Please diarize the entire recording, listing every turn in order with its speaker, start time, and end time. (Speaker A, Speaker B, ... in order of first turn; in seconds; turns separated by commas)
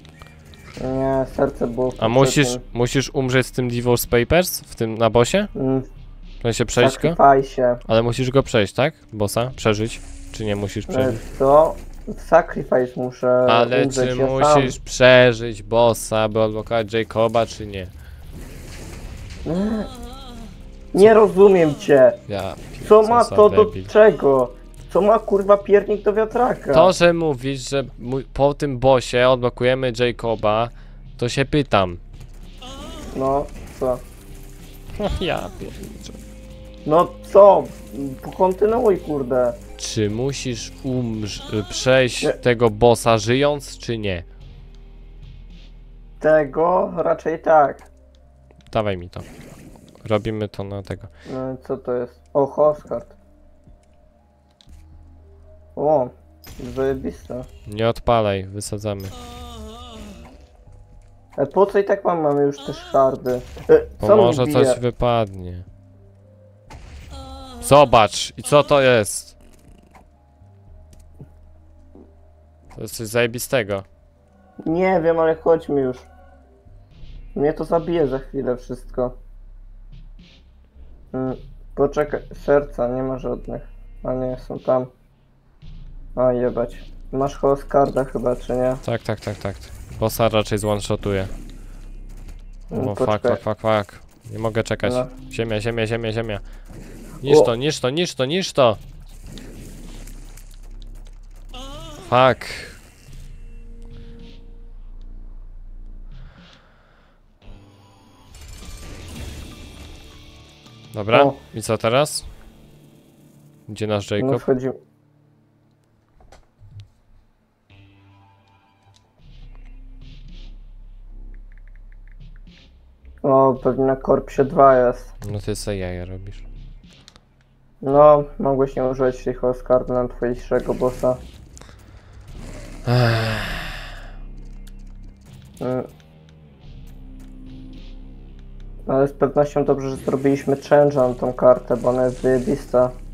Speaker A: 0.8-2.6, Speaker B: 2.0-5.5, Speaker A: 5.5-5.9, Speaker B: 6.4-7.2, Speaker A: 6.8-7.8, Speaker B: 7.9-11.2, Speaker A: 10.9-14.8, Speaker B: 13.5-17.9, Speaker A: 19.5-19.9, Speaker A: 20.9-22.2, Speaker B: 22.3-23.9, Speaker A: 22.8-26.9, Speaker B: 26.7-32.0, Speaker A: 33.1-34.0, Speaker B: 35.0-36.2, Speaker A: 36.9-39.6, Speaker B: 39.8-44.3, Speaker A: 46.2-47.9, Speaker B: 48.7-49.3, Speaker B: 50.0-51.1, Speaker A: 51.3-53.1, Speaker A: 55.8-57.5, Speaker B: 57.7-59.1, Speaker A: 61.4-64.8, Speaker B: 64.0-65.7, Speaker B: 67.6-69.3, Speaker B: 72.8-73.8, Speaker A: 74.6-76.1, Speaker A: 77.3-79.2, Speaker A: 81.1-84.9, Speaker A: 86.2-88.8, Speaker B: 88.8-91.3, Speaker B: 92.7-96.4, Speaker A: 92.7-93.4, Speaker A: 94.8-95.1, Speaker B: 97.2-98.8, Speaker B: 102.0-102.8, Speaker B: 110.9-112.3, Speaker A: 111.1-111.4, Speaker B: 113.7-114.4, Speaker A: 114.2-114.8, Speaker A: 123.2-125.1, Speaker B: 125.2-126.5, Speaker A: 127.8-131.2, Speaker B: 132.9-133.9, Speaker A: 135.6-135.9, Speaker A: 138.9-142.9